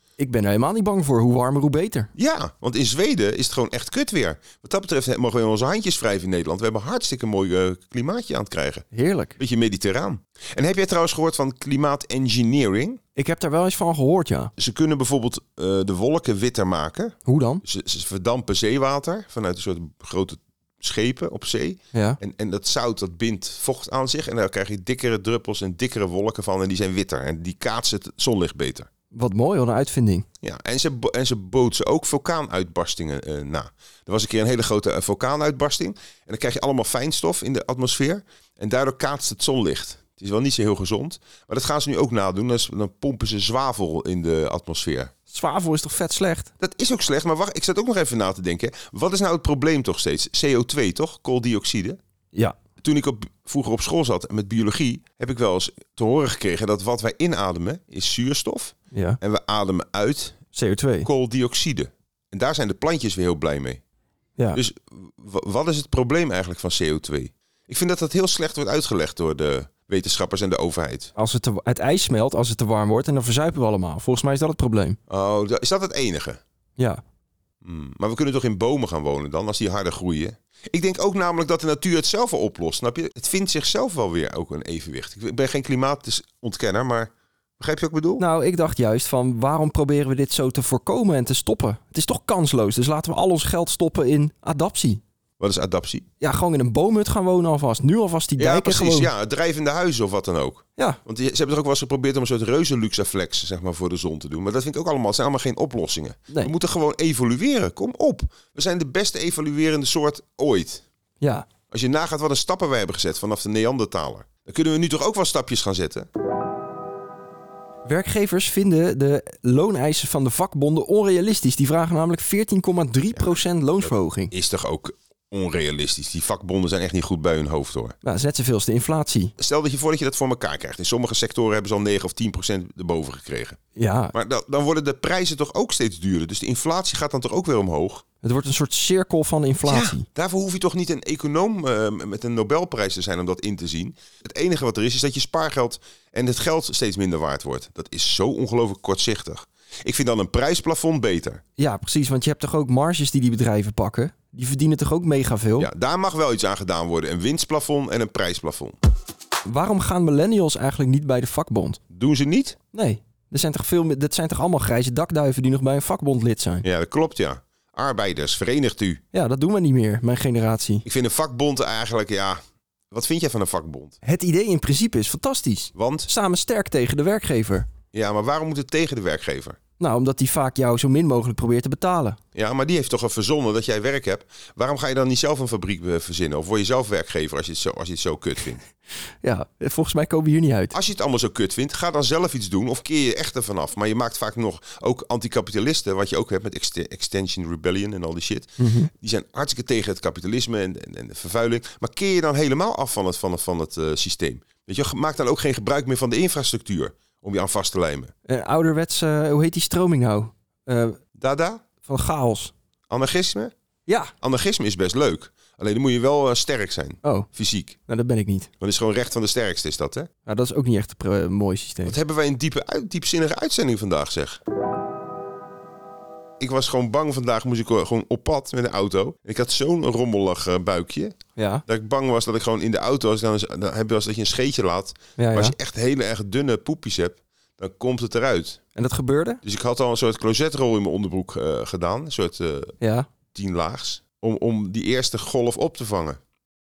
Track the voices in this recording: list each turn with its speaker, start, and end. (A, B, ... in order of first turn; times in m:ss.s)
0:00.2-0:02.1 A
0:02.2-0:08.9 B
0:08.9-0:09.4 A
0:09.4-0:13.0 B
0:13.2-0:14.5 A
0:14.6-0:28.9 B
0:17.3-0:17.6 A
0:21.9-0:22.2 A
0:29.1-0:30.3 A
0:30.4-0:45.1 B
0:45.3-0:46.5 A
0:46.6-0:52.0 B
0:52.8-1:00.4 B
0:58.9-0:59.2 A
1:00.5-1:01.1 A
1:01.0-1:03.8 B
1:04.5-1:11.1 B
1:11.2-1:15.0 A
1:15.1-1:16.4 B
1:16.8-1:17.0 A
1:17.6-1:28.2 B
1:28.2-1:35.0 A
1:35.4-1:36.1 B
1:36.2-1:39.1 A
1:38.4-1:50.8 B
1:51.2-1:51.5 A
1:51.7-1:56.1 B
1:57.8-2:04.3 A
2:03.1-2:08.0 B
2:08.0-2:09.3 A
2:09.4-2:13.6 B
2:13.8-2:14.2 A
2:14.1-2:18.0 B
2:18.2-2:20.1 A
2:19.6-2:31.4 B
2:31.6-2:35.7 A
2:35.6-2:38.8 B
2:39.4-2:41.8 A
2:41.9-2:42.6 B
2:42.7-2:46.6 A
2:46.6-2:49.0 B
2:49.1-2:50.8 A
2:50.8-2:52.4 B
2:52.9-2:54.0 B
2:54.0-2:57.7 A
2:55.8-2:56.1 B
2:57.9-2:59.6 B
2:59.8-3:02.2 A
3:02.4-3:08.6 B
3:09.2-3:10.8 A
3:10.7-3:28.1 B
3:18.6-3:18.9 A
3:28.3-3:31.0 A
3:31.2-3:31.6 B
3:31.8-3:32.5 A
3:32.9-3:33.5 B
3:33.9-3:34.1 A
3:34.2-3:37.8 B
3:37.0-3:37.3 A
3:37.9-3:38.5 A
3:38.6-3:40.1 B
3:40.3-3:42.0 A
3:41.9-3:44.4 B
3:46.4-3:51.1 B
3:51.4-3:51.6 A
3:51.7-3:58.6 B
3:55.2-3:55.6 A
3:58.8-3:59.4 A
3:59.4-4:02.8 B
4:02.8-4:03.1 A
4:03.3-4:06.2 B